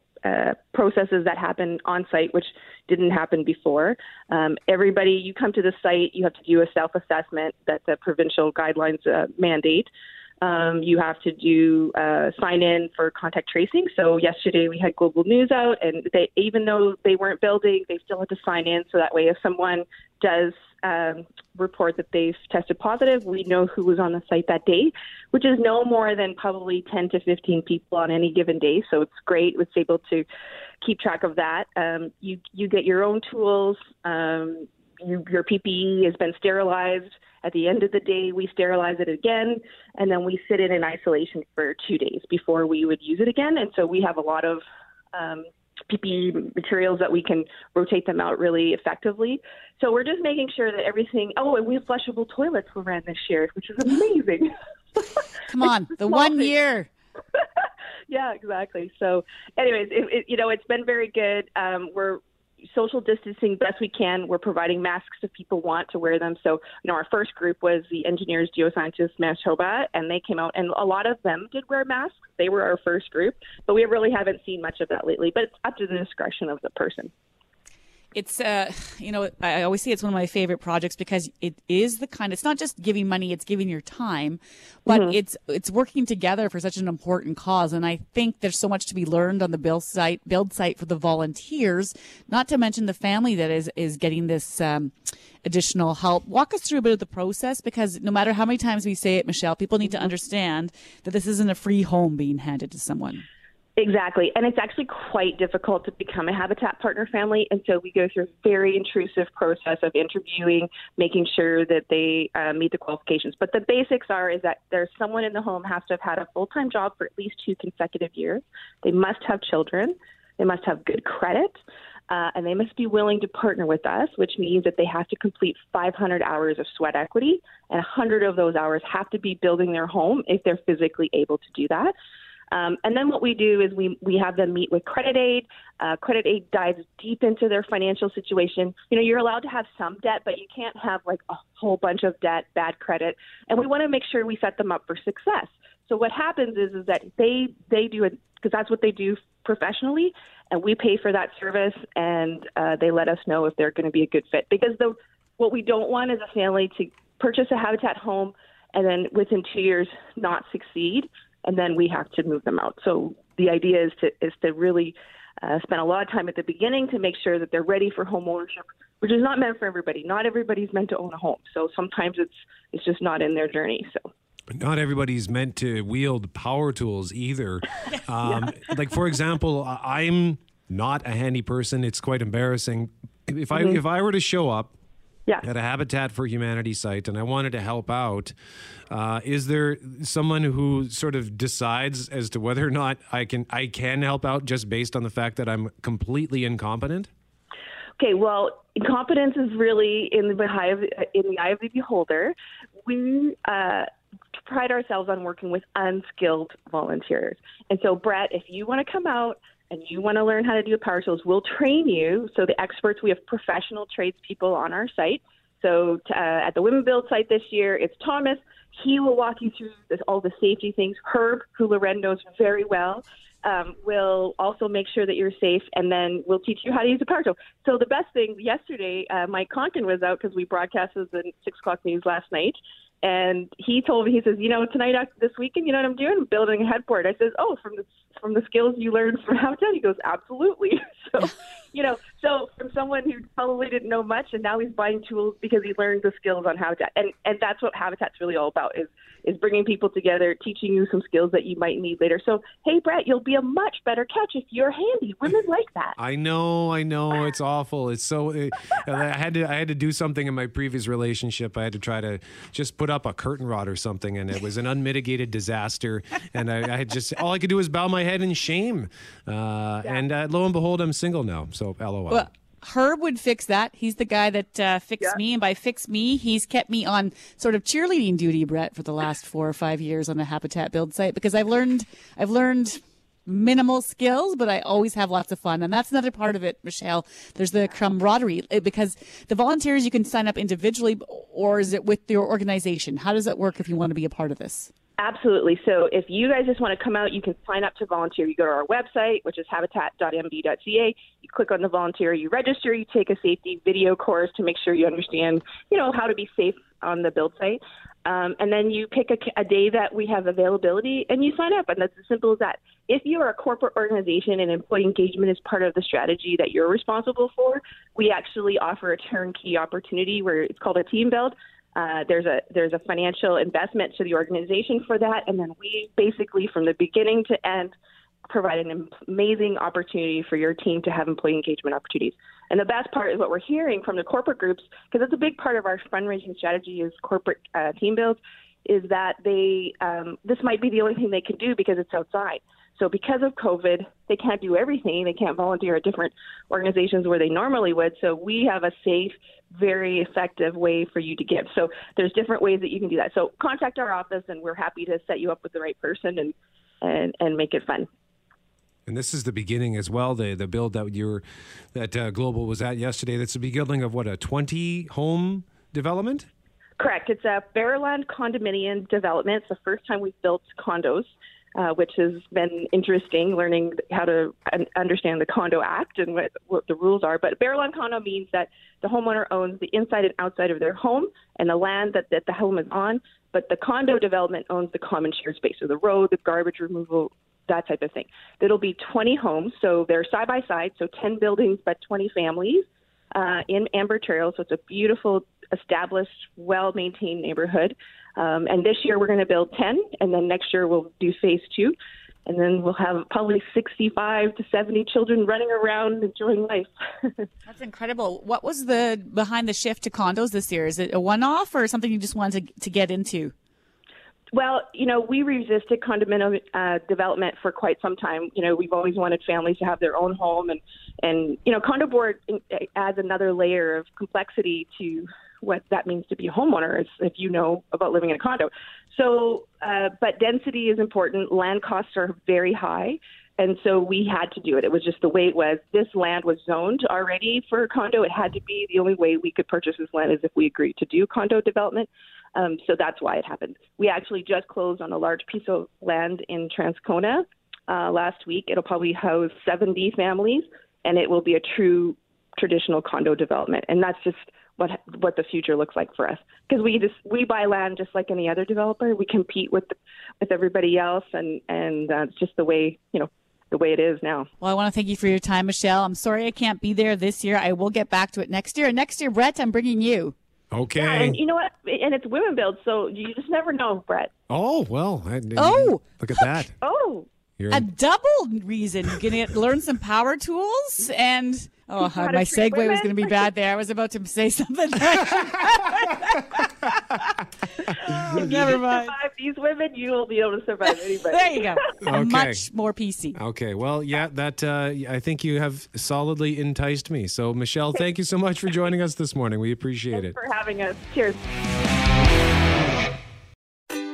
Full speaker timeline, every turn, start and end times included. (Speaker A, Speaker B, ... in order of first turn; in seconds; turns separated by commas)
Speaker A: 0.2-9.9, Speaker A: 10.4-30.3, Speaker A: 30.8-54.5, Speaker B: 55.5-56.9, Speaker A: 56.0-56.5, Speaker A: 58.1-77.1, Speaker B: 78.2-94.9, Speaker A: 84.9-85.2, Speaker B: 95.4-103.2, Speaker A: 103.8-131.9, Speaker A: 132.5-174.1, Speaker C: 174.6-184.7, Speaker A: 183.5-183.8, Speaker C: 185.4-188.3, Speaker C: 188.9-197.1, Speaker A: 198.0-202.3, Speaker A: 202.9-203.9, Speaker A: 204.4-255.9, Speaker C: 256.0-272.3, Speaker B: 272.1-294.7, Speaker A: 295.0-327.7, Speaker A: 328.3-357.9, Speaker C: 358.9-366.3, Speaker A: 366.8-406.7, Speaker B: 407.5-413.3, Speaker A: 414.3-464.3, Speaker B: 464.4-470.1, Speaker C: 470.5-471.2, Speaker A: 470.8-474.1, Speaker C: 474.3-476.5, Speaker B: 475.4-476.2, Speaker A: 476.6-477.1, Speaker C: 477.4-477.7, Speaker B: 477.5-486.5, Speaker A: 481.8-483.3, Speaker B: 487.9-488.9, Speaker A: 488.1-491.7, Speaker B: 491.1-493.2, Speaker C: 491.8-492.4, Speaker C: 493.2-500.2, Speaker A: 499.9-501.2